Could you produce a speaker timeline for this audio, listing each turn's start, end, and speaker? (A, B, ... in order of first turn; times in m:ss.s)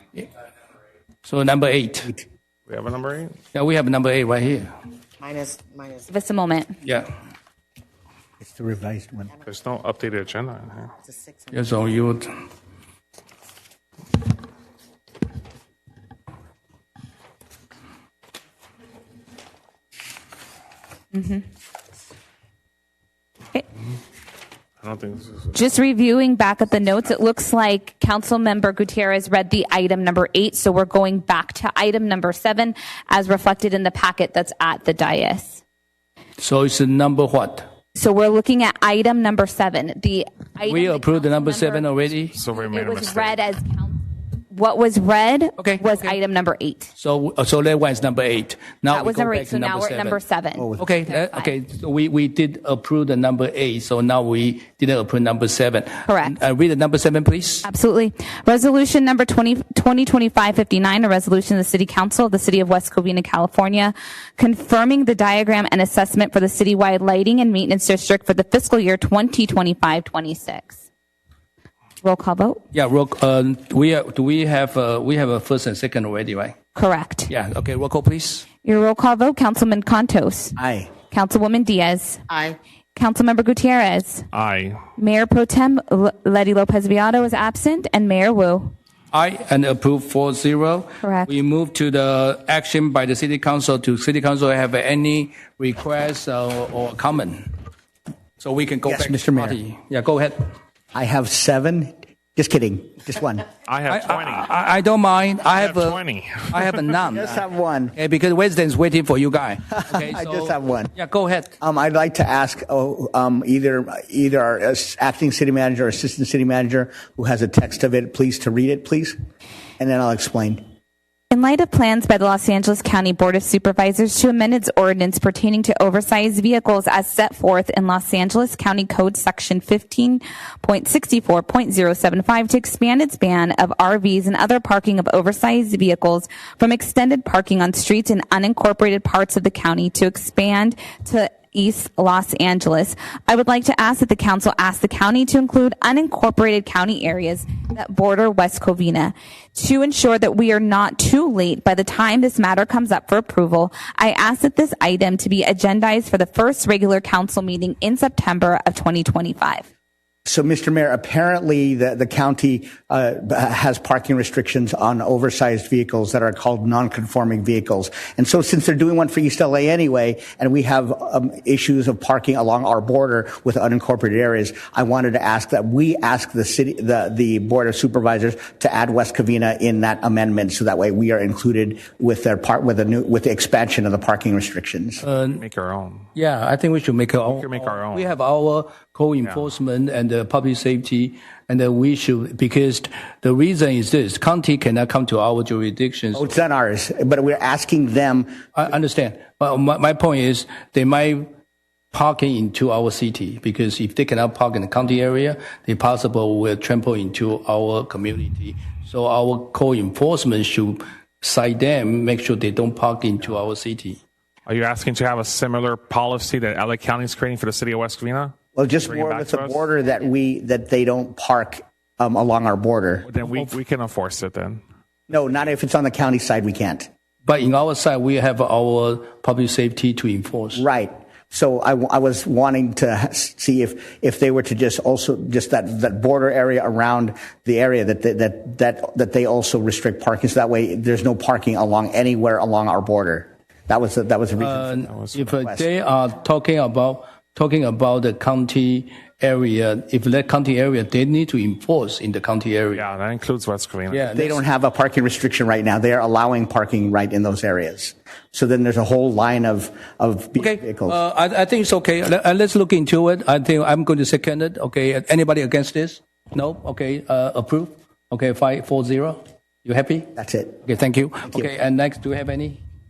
0:01.2-0:02.1 A
0:02.7-0:03.4 B
0:03.5-0:04.7 A
0:05.2-0:06.2 C
0:06.1-0:06.8 D
0:06.8-0:07.1 A
0:08.4-0:09.3 E
0:09.4-0:10.9 B
0:11.0-0:12.0 C
0:11.5-0:12.3 A
0:21.1-0:21.4 D
0:24.8-0:25.6 B
0:25.5-0:35.6 D
0:36.4-0:37.7 A
0:37.9-0:46.9 D
0:40.6-0:42.4 A
0:42.3-0:43.4 B
0:45.6-0:46.2 A
0:47.0-0:50.2 A
0:48.9-0:51.5 D
0:50.6-0:50.9 E
0:50.8-0:57.7 A
0:56.1-0:56.3 D
0:57.6-1:10.8 D
1:12.0-1:12.6 D
1:12.7-1:16.6 A
1:16.7-1:17.3 D
1:17.3-1:18.4 A
1:18.6-1:20.6 D
1:20.6-1:20.9 E
1:21.1-1:22.2 D
1:22.3-1:22.6 C
1:22.9-1:24.2 D
1:24.3-1:24.8 B
1:25.0-1:28.7 D
1:29.1-1:37.5 A
1:31.0-1:31.3 D
1:38.4-1:40.5 A
1:38.8-1:39.6 E
1:40.9-1:43.4 E
1:43.6-1:44.5 B
1:43.9-1:47.4 A
1:45.4-1:46.9 B
1:47.0-1:47.9 E
1:48.0-1:51.5 A
1:49.7-1:50.9 E
1:51.6-1:59.2 E
1:59.8-2:00.6 E
2:01.3-2:39.6 D
2:40.2-3:05.0 E
3:05.0-3:05.4 A
3:05.3-3:06.1 B
3:06.1-3:16.3 A
3:07.2-3:08.1 B
3:09.2-3:09.5 B
3:16.1-3:18.4 E
3:18.5-3:21.3 A
3:21.9-3:34.0 A
3:34.4-3:39.7 B
3:38.5-3:43.1 E
3:43.0-3:44.6 B
3:43.2-3:43.5 A
3:45.1-3:46.9 E
3:47.2-3:50.6 A
3:50.5-4:04.7 E
4:04.4-4:12.8 A
4:04.8-4:05.3 B
4:05.4-4:05.7 E
4:12.7-4:14.1 B
4:13.9-4:14.4 A
4:14.1-4:21.0 E
4:20.4-4:32.6 A
4:30.2-4:30.6 E
4:31.3-4:31.5 E